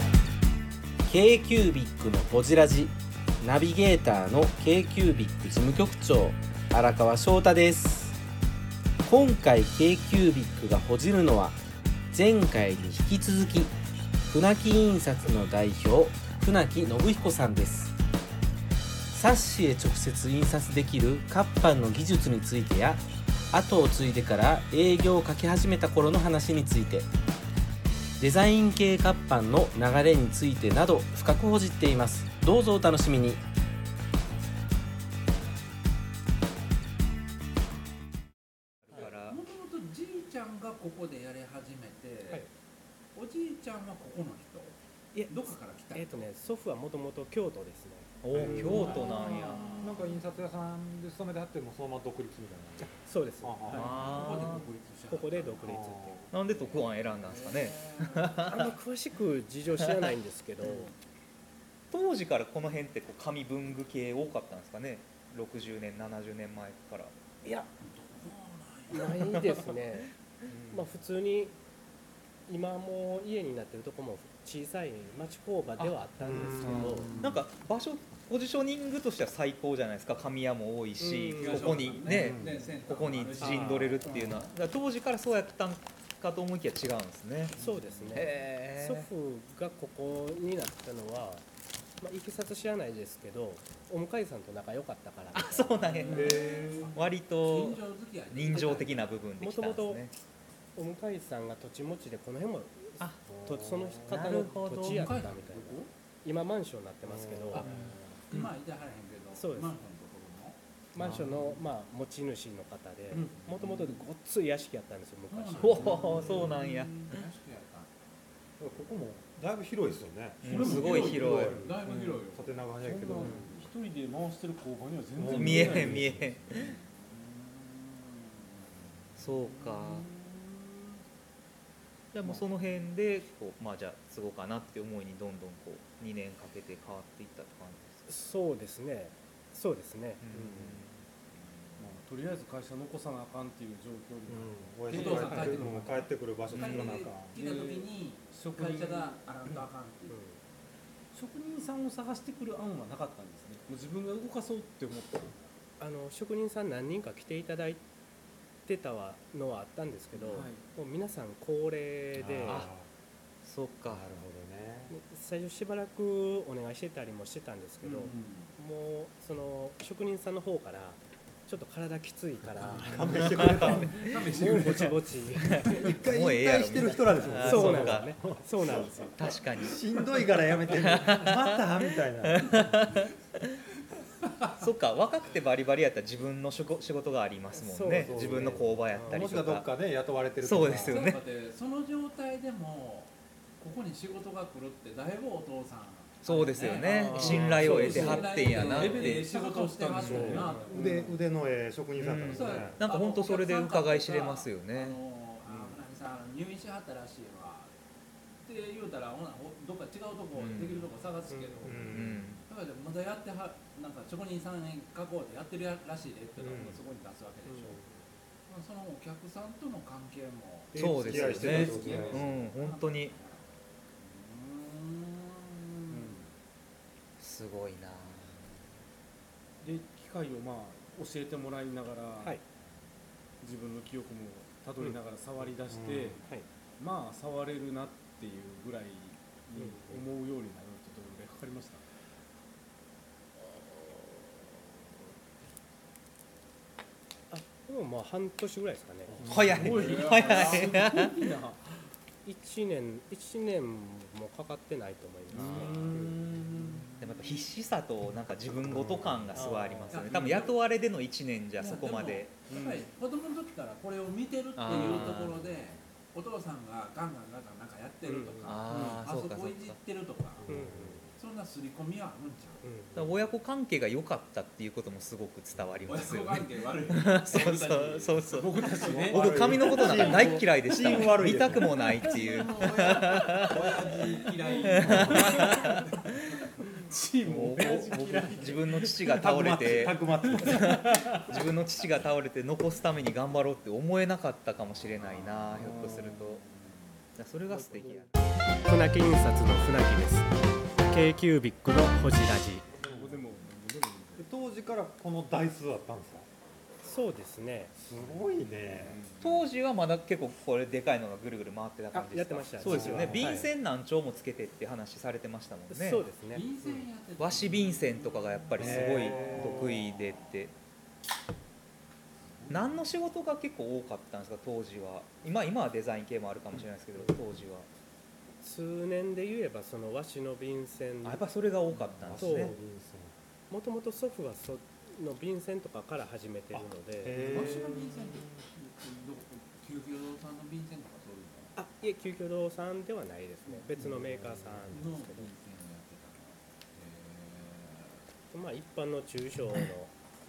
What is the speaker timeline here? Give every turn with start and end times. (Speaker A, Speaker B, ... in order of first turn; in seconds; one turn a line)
Speaker A: 1.0-8.2
Speaker A: 9.0-11.6
Speaker A: 12.1-17.9
Speaker A: 19.1-27.1
Speaker A: 28.2-33.4
Speaker B: 38.9-39.4
Speaker C: 38.9-42.4
Speaker C: 43.1-44.8
Speaker C: 45.3-46.2
Speaker D: 45.9-49.3
Speaker B: 48.2-49.8
Speaker E: 48.3-54.5
Speaker C: 48.4-50.0
Speaker D: 52.8-53.7
Speaker C: 53.7-55.9
Speaker B: 53.7-54.6
Speaker D: 55.1-56.2
Speaker E: 55.6-56.3
Speaker B: 56.3-58.7
Speaker C: 56.5-58.3
Speaker D: 58.5-60.9
Speaker C: 60.6-60.9
Speaker B: 61.9-67.1
Speaker C: 67.8-69.2
Speaker D: 68.9-70.1
Speaker B: 69.0-69.6
Speaker F: 70.5-70.9
Speaker D: 70.7-71.5
Speaker D: 72.5-77.1
Speaker B: 75.8-87.5
Speaker E: 76.2-77.4
Speaker D: 81.0-81.9
Speaker C: 81.4-84.5
Speaker E: 82.1-82.7
Speaker E: 83.4-84.1
Speaker D: 87.6-91.4
Speaker B: 88.1-89.1
Speaker D: 92.0-96.2
Speaker B: 95.3-100.1
Speaker C: 96.0-99.1
Speaker F: 96.1-96.9
Speaker E: 96.1-96.6
Speaker D: 99.4-100.0
Speaker D: 100.8-107.6
Speaker E: 103.3-104.2
Speaker B: 104.1-105.1
Speaker C: 104.8-105.9
Speaker E: 107.0-108.0
Speaker B: 107.6-108.5
Speaker C: 108.3-110.6
Speaker D: 109.3-109.7
Speaker D: 110.9-116.1
Speaker B: 111.0-111.5
Speaker F: 113.1-114.0
Speaker C: 115.3-117.9
Speaker B: 115.6-117.2
Speaker F: 115.8-117.0
Speaker E: 118.6-121.7
Speaker B: 120.4-121.7
Speaker C: 120.5-122.6
Speaker F: 120.5-121.0
Speaker F: 121.8-122.2
Speaker E: 122.3-123.5
Speaker F: 122.8-126.7
Speaker E: 125.2-126.0
Speaker B: 125.2-126.6
Speaker C: 126.5-129.2
Speaker B: 129.2-130.1
Speaker C: 130.1-130.9
Speaker B: 132.1-138.1
Speaker D: 138.1-140.9
Speaker B: 140.2-141.0
Speaker F: 141.8-146.0
Speaker E: 144.3-147.3
Speaker C: 144.9-150.2
Speaker B: 146.5-147.0
Speaker F: 147.3-149.7
Speaker D: 150.1-150.4
Speaker F: 151.1-155.4
Speaker D: 155.8-157.8
Speaker D: 158.7-162.7
Speaker F: 160.2-160.6
Speaker E: 162.1-162.9
Speaker B: 162.4-162.7
Speaker B: 163.4-164.0
Speaker E: 163.8-164.9
Speaker D: 164.9-175.7
Speaker F: 167.8-168.1
Speaker C: 167.8-168.5
Speaker E: 172.6-174.0
Speaker B: 173.2-174.0
Speaker C: 174.0-176.0
Speaker B: 175.6-178.1
Speaker E: 175.6-182.9
Speaker D: 177.3-179.2
Speaker B: 179.2-181.6
Speaker B: 182.2-183.6
Speaker C: 184.2-184.6
Speaker B: 184.6-189.7
Speaker D: 187.5-189.3
Speaker E: 187.9-191.0
Speaker B: 190.4-191.2
Speaker C: 190.8-201.0
Speaker B: 196.2-199.3
Speaker F: 196.8-201.1
Speaker E: 200.0-202.8
Speaker D: 200.4-200.8
Speaker B: 202.0-205.0
Speaker C: 202.2-207.7
Speaker C: 208.4-211.9
Speaker B: 210.3-210.9
Speaker D: 211.3-211.9
Speaker E: 211.6-212.4
Speaker B: 211.8-212.4
Speaker C: 212.5-217.8
Speaker D: 216.4-216.7
Speaker E: 216.4-216.8
Speaker D: 217.4-217.9
Speaker C: 218.5-223.4
Speaker E: 220.7-222.3
Speaker B: 220.7-223.1
Speaker F: 221.2-222.5
Speaker C: 224.0-226.2
Speaker F: 225.9-226.3
Speaker B: 227.2-228.4
Speaker F: 229.6-232.4
Speaker F: 233.4-236.2
Speaker E: 235.4-236.2
Speaker F: 236.8-241.8
Speaker D: 239.5-240.0
Speaker D: 247.3-249.2
Speaker E: 249.1-249.7
Speaker F: 249.2-251.6
Speaker B: 249.2-251.2
Speaker C: 249.8-250.7
Speaker D: 252.2-256.2
Speaker F: 255.3-256.9
Speaker B: 255.4-255.7
Speaker C: 256.6-256.9
Speaker B: 257.0-262.3
Speaker E: 258.6-259.6
Speaker D: 259.3-260.1
Speaker C: 259.9-260.6
Speaker C: 261.6-270.4
Speaker F: 262.5-262.9
Speaker B: 264.6-265.4
Speaker D: 268.0-268.6
Speaker B: 268.4-269.8
Speaker F: 268.7-269.0
Speaker E: 270.4-271.1
Speaker D: 270.5-271.0
Speaker C: 271.2-272.6
Speaker D: 272.6-273.2
Speaker B: 272.9-283.7
Speaker C: 275.9-280.4
Speaker F: 278.3-280.4
Speaker E: 279.0-281.7
Speaker C: 282.0-286.2
Speaker F: 283.4-285.8
Speaker B: 284.7-285.6
Speaker E: 284.8-285.3
Speaker F: 286.6-289.5
Speaker B: 287.2-296.4
Speaker E: 287.3-288.4
Speaker E: 289.0-290.9
Speaker F: 290.2-291.5
Speaker F: 295.4-296.7
Speaker B: 297.1-298.1
Speaker D: 298.6-300.3
Speaker D: 300.9-302.6
Speaker F: 302.8-304.3
Speaker E: 302.8-303.4
Speaker E: 304.2-306.3
Speaker D: 306.8-308.2
Speaker E: 307.9-309.0
Speaker F: 308.6-309.4
Speaker B: 309.2-316.1
Speaker D: 311.9-313.5
Speaker E: 312.6-313.4
Speaker D: 315.7-316.4
Speaker C: 316.3-319.2
Speaker B: 317.2-320.5
Speaker E: 318.6-319.8
Speaker F: 318.6-319.4
Speaker C: 319.8-320.3
Speaker C: 322.3-322.8
Speaker B: 322.5-327.7
Speaker D: 328.4-331.2
Speaker B: 331.0-332.5
Speaker E: 331.8-333.1
Speaker D: 332.2-332.5
Speaker D: 333.5-337.4
Speaker E: 336.5-338.3
Speaker C: 337.3-341.5
Speaker D: 341.6-345.3
Speaker C: 343.5-343.8
Speaker E: 343.8-344.8
Speaker C: 344.7-348.0
Speaker D: 348.3-349.9